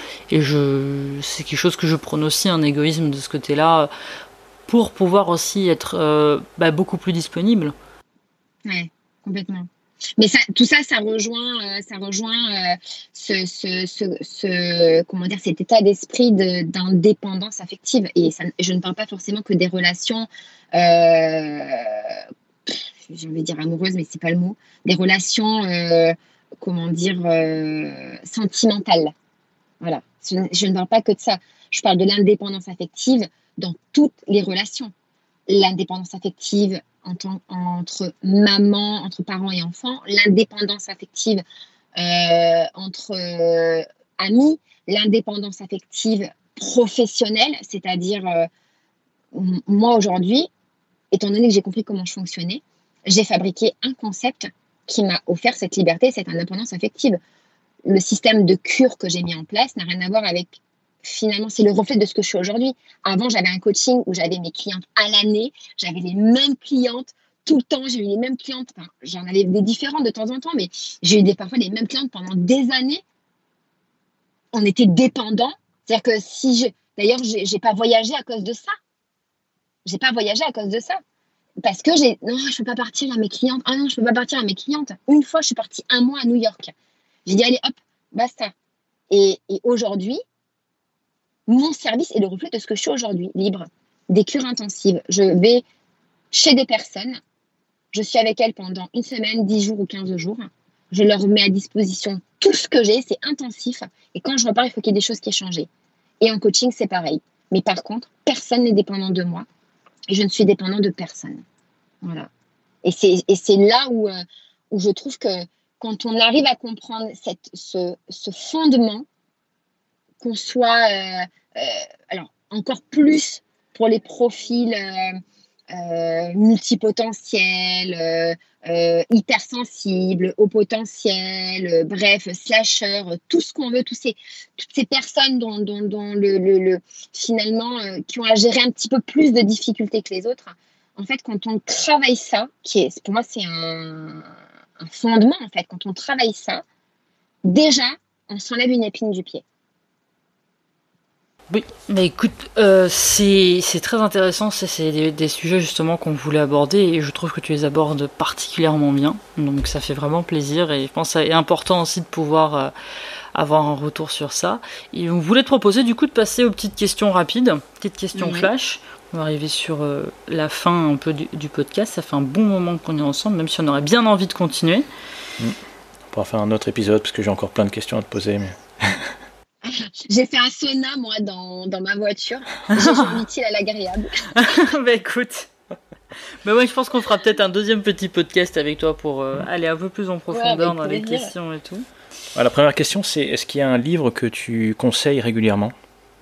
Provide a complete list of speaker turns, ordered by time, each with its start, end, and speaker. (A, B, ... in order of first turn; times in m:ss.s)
0:00.3-0:03.9 A
0:04.7-0:07.7 A
0:08.6-0:29.1 B
0:29.8-0:34.9 B
0:35.5-0:41.4 B
0:42.0-0:48.5 B
0:49.3-0:50.5 B
0:51.1-0:57.2 B
0:57.8-1:13.0 B
1:14.5-1:18.7 B
1:19.8-1:21.0 B
1:21.6-1:26.7 B
1:27.2-1:28.5 B
1:29.1-1:30.2 B
1:31.5-1:35.6 B
1:36.3-1:37.2 B
1:37.9-1:45.7 B
1:46.2-1:49.4 B
1:50.1-1:51.4 B
1:52.0-1:52.3 B
1:52.8-1:59.0 B
2:00.2-2:05.2 B
2:05.7-2:26.6 B
2:27.4-2:29.4 B
2:31.5-2:42.7 A
2:43.3-2:54.8 A
2:48.1-2:48.5 B
2:56.1-2:59.1 C
2:59.6-3:04.2 B
3:02.8-3:03.1 A
3:04.4-3:05.5 A
3:06.4-3:11.9 A
3:10.3-3:11.3 B
3:12.3-3:15.7 C